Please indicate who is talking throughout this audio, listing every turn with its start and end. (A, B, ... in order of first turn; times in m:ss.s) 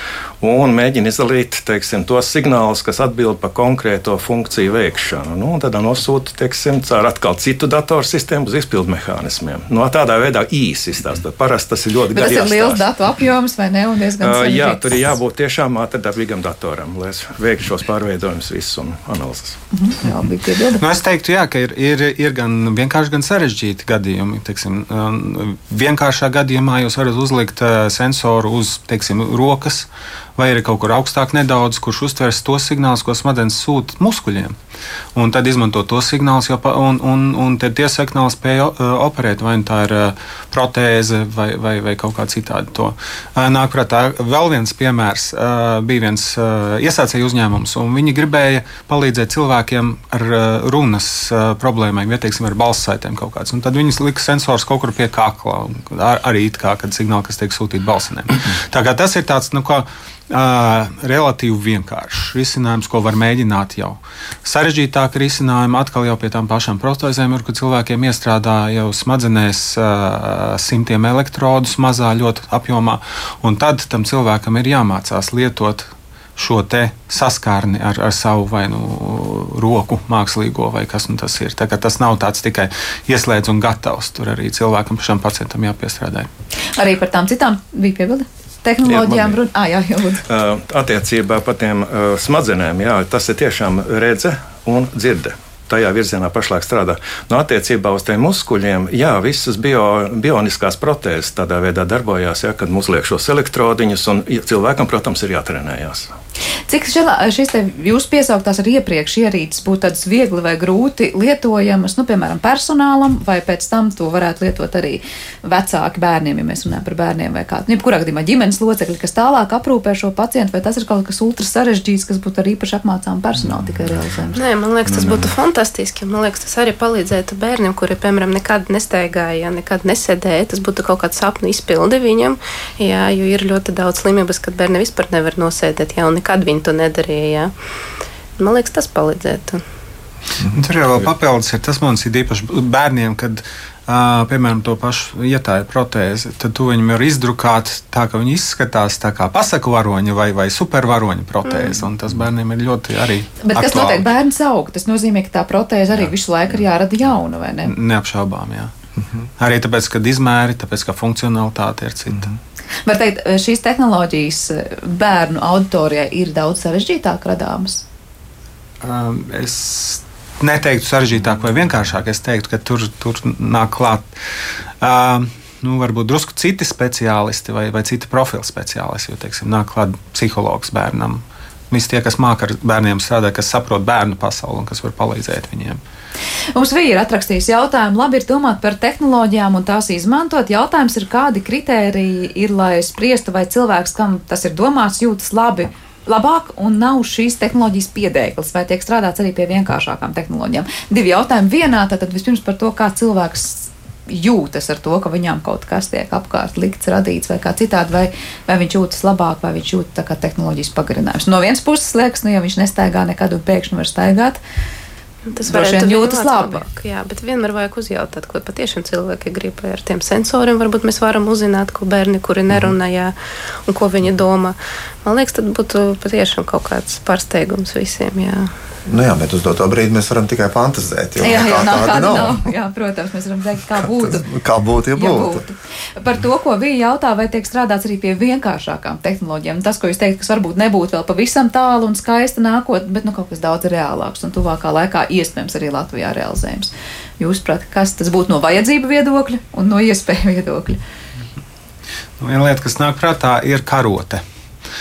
0:00.4-0:12.8 A
0:12.1-0:15.2 B
0:14.2-0:19.6 A
0:19.7-0:20.8 B
0:20.8-0:34.6 C
0:35.2-1:26.3 C
1:26.7-1:30.2 B
1:28.8-1:29.4 A
1:30.3-1:46.1 A
1:46.7-2:04.4 B
2:04.4-2:17.5 D
2:04.9-2:05.3 A
2:18.4-2:19.6 D
2:20.5-2:34.0 C
2:31.5-2:31.7 D
2:33.4-2:37.7 B
2:37.6-2:38.7 C
2:39.4-2:42.3 C
2:42.9-2:47.8 B
2:48.8-2:54.1 C
2:54.8-3:05.8 C
3:06.6-3:34.4 B
3:35.3-3:43.2 D
3:35.5-3:36.6 B
3:43.7-3:48.5 D
3:48.9-3:52.5 E
3:51.2-3:54.3 B
3:53.7-3:55.4 E
3:55.0-4:10.8 B
4:12.2-4:14.2 C